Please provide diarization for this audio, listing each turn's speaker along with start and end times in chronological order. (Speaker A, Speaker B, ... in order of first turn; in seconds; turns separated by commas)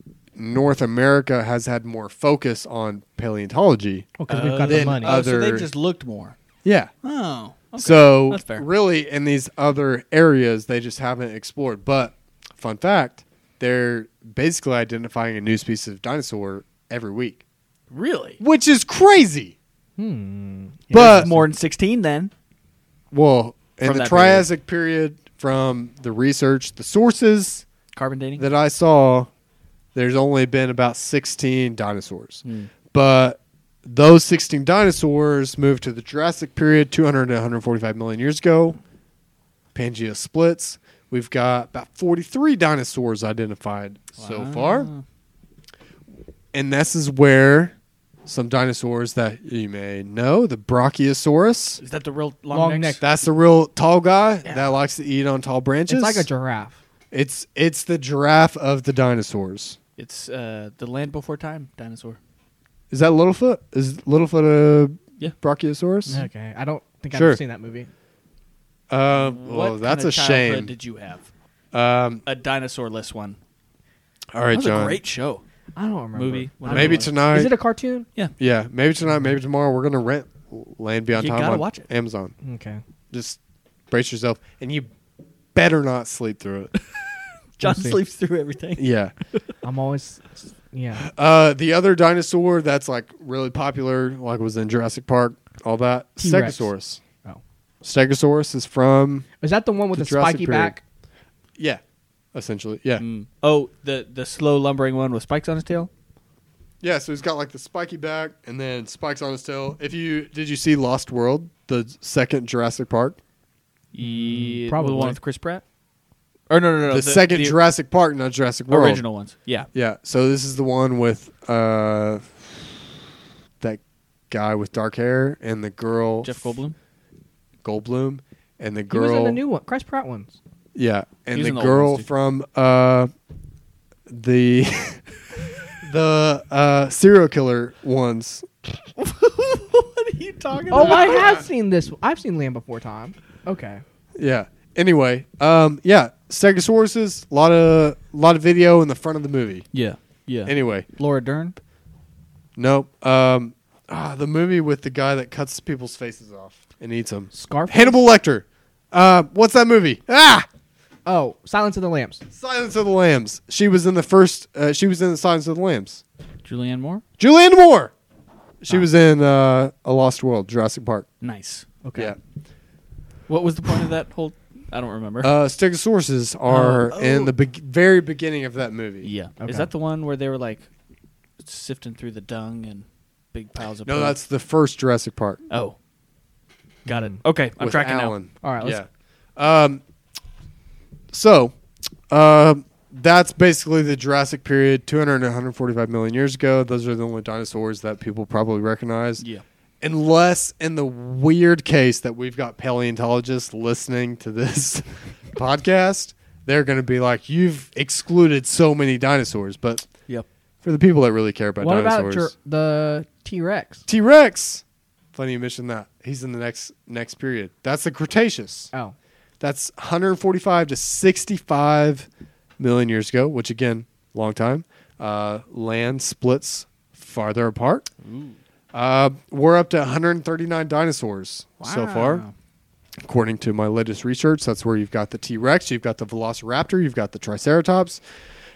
Speaker A: 0.3-5.7, Speaker B: 4.2-5.2, Speaker C: 4.3-6.3, Speaker A: 6.6-6.9, Speaker C: 7.0-8.6, Speaker A: 7.8-17.4, Speaker C: 17.9-18.4, Speaker A: 18.4-19.5, Speaker B: 20.0-21.4, Speaker A: 20.9-21.3, Speaker C: 20.9-22.3, Speaker A: 23.1-27.6, Speaker C: 23.8-24.5, Speaker C: 27.9-28.4, Speaker A: 28.4-29.3, Speaker A: 29.9-38.8, Speaker C: 32.4-32.7, Speaker A: 39.7-44.9, Speaker C: 44.1-45.0, Speaker A: 46.5-47.7, Speaker A: 48.2-51.8, Speaker C: 51.8-53.0, Speaker B: 52.5-53.0, Speaker A: 53.0-56.3, Speaker C: 54.4-54.7, Speaker B: 55.9-56.8, Speaker A: 57.1-59.8, Speaker C: 60.0-62.2, Speaker A: 62.9-66.2, Speaker B: 66.1-67.9, Speaker A: 67.1-67.4, Speaker A: 68.9-70.7, Speaker C: 69.1-71.3, Speaker A: 71.7-72.2, Speaker C: 72.2-73.4, Speaker A: 74.3-75.0, Speaker C: 74.5-75.4, Speaker B: 75.8-78.1, Speaker C: 76.1-77.2, Speaker A: 76.7-77.5, Speaker A: 78.4-82.3, Speaker C: 81.2-81.9, Speaker B: 82.4-82.8, Speaker A: 83.1-83.4, Speaker A: 83.9-84.9, Speaker A: 85.5-86.7, Speaker C: 87.6-88.8, Speaker B: 87.6-88.0, Speaker A: 88.8-89.1, Speaker B: 89.6-91.1, Speaker A: 91.0-97.0, Speaker B: 96.2-96.7, Speaker A: 97.8-99.3, Speaker B: 99.4-100.8, Speaker A: 99.9-100.8, Speaker A: 102.3-103.0, Speaker C: 103.0-105.9, Speaker A: 106.8-113.2, Speaker C: 113.9-115.6, Speaker B: 114.0-115.2, Speaker C: 116.5-117.6, Speaker A: 116.9-119.0, Speaker C: 118.7-119.7, Speaker A: 119.7-122.9, Speaker A: 123.6-126.6, Speaker C: 126.2-126.7, Speaker A: 127.6-129.4, Speaker B: 128.9-130.4, Speaker A: 130.7-133.1, Speaker C: 131.3-132.1, Speaker A: 134.1-135.0, Speaker A: 135.8-138.5, Speaker C: 138.9-141.3, Speaker B: 140.7-143.8, Speaker A: 140.8-141.4, Speaker A: 144.2-149.7, Speaker C: 149.7-151.6, Speaker A: 150.4-150.8, Speaker A: 152.6-160.5, Speaker B: 157.3-158.0, Speaker B: 161.1-162.2, Speaker A: 162.3-166.0, Speaker C: 166.4-167.0, Speaker A: 167.2-167.9, Speaker A: 168.6-171.1, Speaker C: 171.2-171.7, Speaker B: 171.8-172.1, Speaker C: 173.3-175.3, Speaker A: 175.2-179.1, Speaker C: 176.5-177.3, Speaker C: 179.0-180.7, Speaker B: 179.4-179.7, Speaker C: 181.4-184.2, Speaker A: 183.8-185.4, Speaker C: 185.5-185.8, Speaker C: 186.8-188.1, Speaker A: 187.6-189.8, Speaker B: 188.4-188.8, Speaker A: 191.1-191.5, Speaker A: 192.1-199.2, Speaker A: 199.8-209.9, Speaker A: 210.6-212.3, Speaker B: 211.6-213.9, Speaker A: 213.9-214.6, Speaker A: 215.1-218.7, Speaker A: 219.4-222.1, Speaker A: 222.6-227.9, Speaker C: 228.0-228.4, Speaker A: 228.7-232.2, Speaker C: 231.6-232.3, Speaker A: 233.0-238.0